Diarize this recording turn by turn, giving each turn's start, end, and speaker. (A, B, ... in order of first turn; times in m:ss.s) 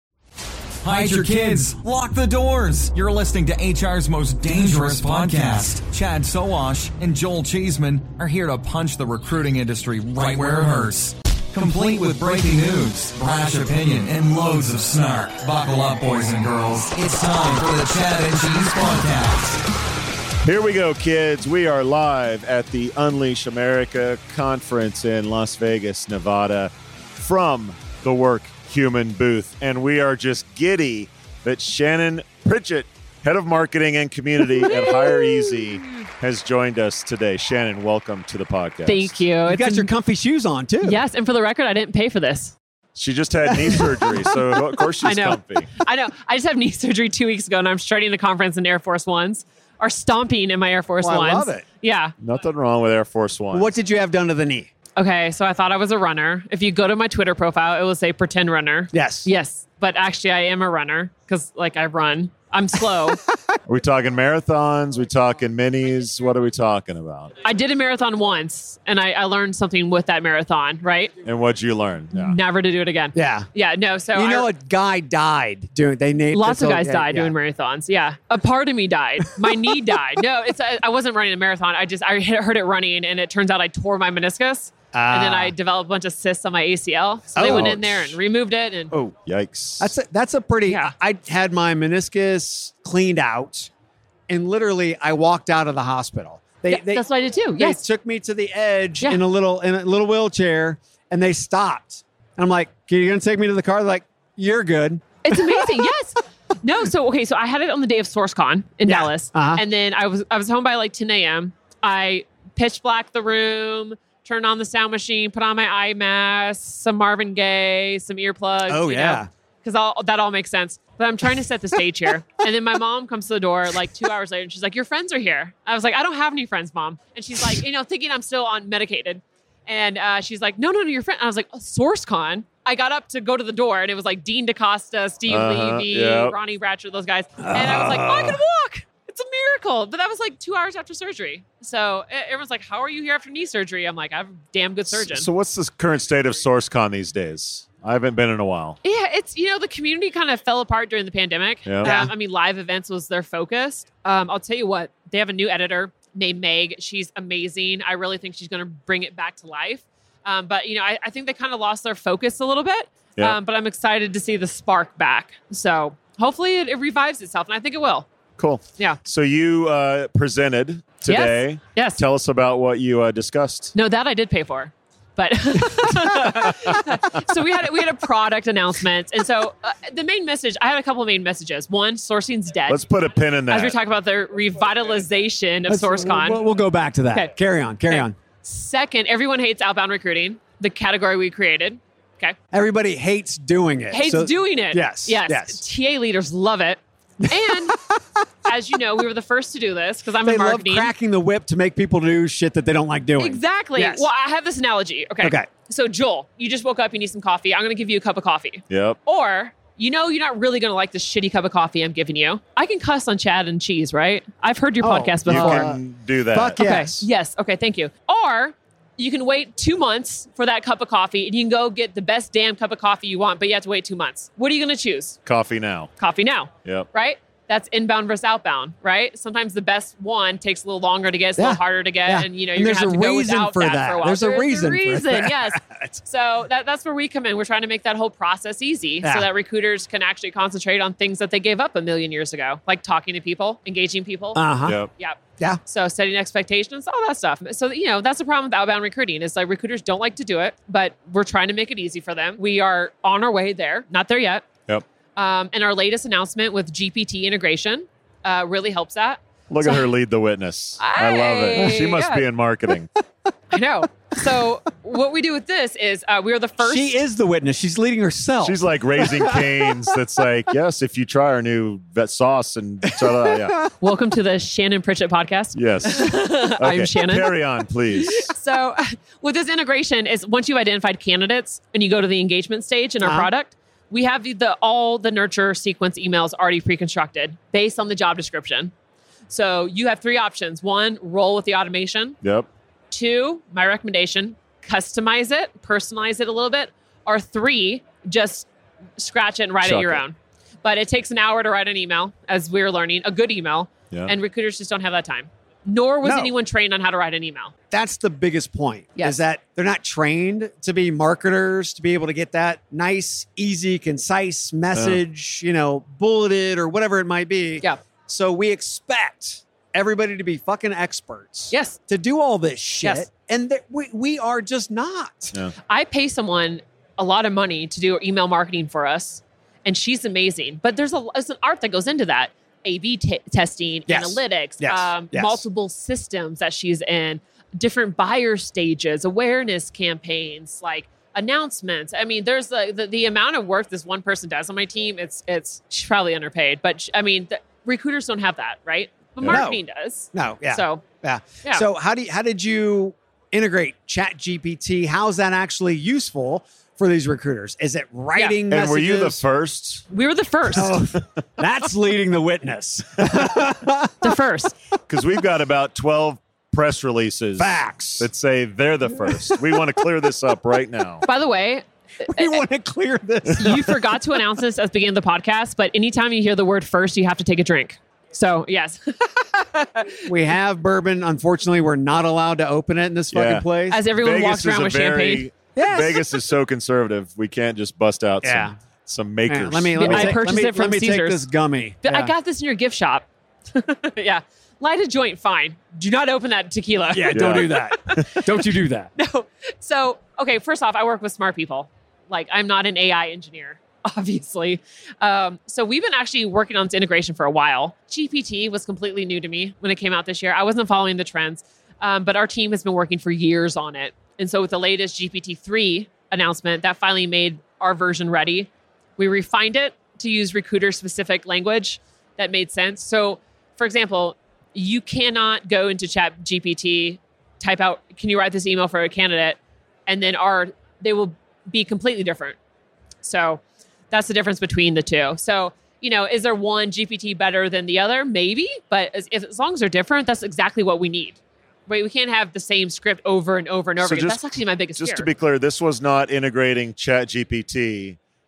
0:00.8-0:19.6 A
0:20.4-0:39.1 B
0:34.8-0:35.2 C
0:38.8-0:39.9 C
0:39.4-0:41.0 D
0:40.8-0:42.5 C
0:43.0-0:45.7 B
0:43.6-0:52.1 C
0:51.0-0:51.6 D
0:52.2-0:53.8 B
0:53.5-0:54.7 D
0:55.0-1:03.2 C
0:58.9-0:59.3 D
1:03.7-1:07.3 B
1:07.4-1:11.1 C
1:11.2-1:12.4 B
1:12.1-1:14.5 C
1:13.1-1:13.5 D
1:14.1-1:17.3 D
1:16.3-1:28.9 C
1:24.9-1:25.5 D
1:27.3-1:27.7 D
1:27.5-1:28.1 B
1:29.3-1:29.9 B
1:29.8-1:33.7 D
1:30.7-1:30.9 C
1:34.3-1:37.0 D
1:36.7-1:37.8 C
1:37.6-1:45.0 D
1:45.2-2:25.3 C
1:48.8-1:49.6 D
1:58.7-1:59.3 D
2:15.3-2:16.3 B
2:17.5-2:18.4 D
2:24.9-2:28.8 B
2:28.8-2:48.1 C
2:31.7-2:32.0 B
2:31.8-2:32.1 D
2:48.4-2:53.7 B
2:51.0-2:52.0 C
2:53.7-3:02.8 C
3:02.7-3:03.8 B
3:03.5-3:06.4 C
3:05.7-3:08.2 D
3:07.9-3:12.3 C
3:12.5-3:15.6 D
3:13.9-3:17.8 C
3:18.4-3:20.9 C
3:20.2-3:24.1 D
3:23.2-3:35.7 C
3:25.2-3:25.5 D
3:28.7-3:29.0 B
3:34.8-3:35.8 D
3:35.2-3:36.7 B
3:36.3-3:37.0 D
3:36.6-3:45.2 C
3:45.2-3:45.9 B
3:46.0-4:14.5 C
3:51.4-3:55.9 D
4:04.3-4:04.8 D
4:15.2-4:19.9 C
4:19.5-4:22.9 B
4:20.8-4:22.2 C
4:23.5-4:27.0 C
4:26.6-4:29.6 D
4:28.4-4:33.5 B
4:33.8-4:48.7 C
4:35.5-4:38.3 B
4:43.0-4:43.3 D
4:49.3-4:52.2 C
4:52.2-4:52.5 B
4:52.9-5:07.5 C
4:59.6-5:00.0 B
5:06.0-5:06.3 D
5:07.7-5:25.4 D
5:09.0-5:09.2 C
5:14.7-5:15.0 B
5:21.5-5:21.8 C
5:25.7-5:50.8 C
5:33.9-5:35.4 D
5:49.2-5:49.4 B
5:49.3-5:49.6 D
5:50.1-5:59.2 D
5:58.5-5:59.8 B
5:59.9-6:00.8 C
6:00.5-6:04.2 D
6:04.0-6:04.5 C
6:04.9-6:11.0 B
6:07.4-6:08.1 D
6:09.0-6:09.4 D
6:11.0-6:12.4 C
6:12.1-6:14.2 D
6:13.3-6:20.1 C
6:20.1-6:23.8 D
6:23.1-6:30.2 B
6:23.7-6:25.3 C
6:25.6-6:26.1 D
6:28.2-6:28.6 D
6:29.3-6:32.1 D
6:29.7-6:31.2 C
6:31.8-6:38.0 C
6:36.9-6:38.9 D
6:37.1-6:38.2 B
6:39.0-7:12.4 C
7:13.0-7:25.1 C
7:23.8-7:28.0 B